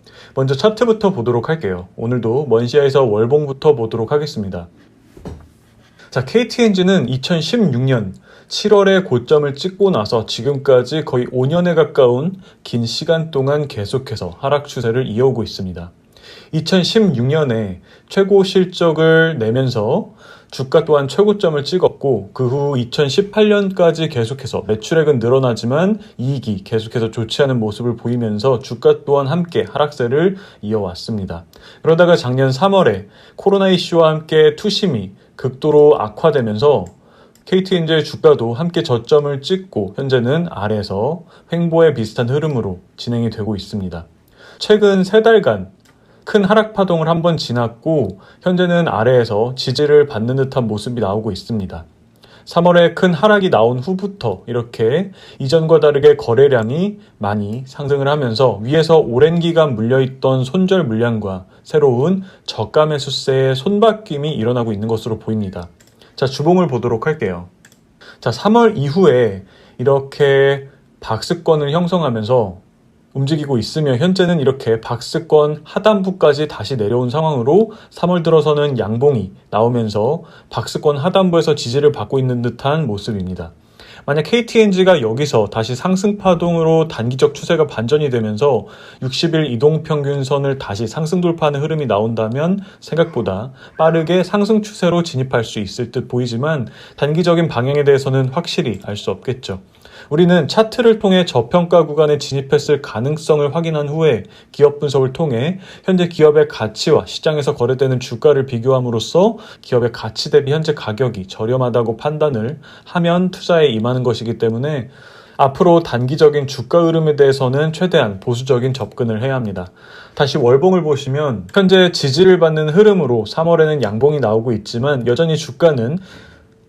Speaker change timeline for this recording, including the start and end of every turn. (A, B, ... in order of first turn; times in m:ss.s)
0:00.3-0:04.7 A
0:06.1-0:15.9 A
0:16.5-0:36.9 A
0:37.4-0:44.0 A
0:44.6-0:45.7 A
0:46.2-0:51.8 A
0:52.4-1:07.5 A
1:08.2-1:12.6 A
1:13.1-1:23.5 A
1:24.0-2:06.0 A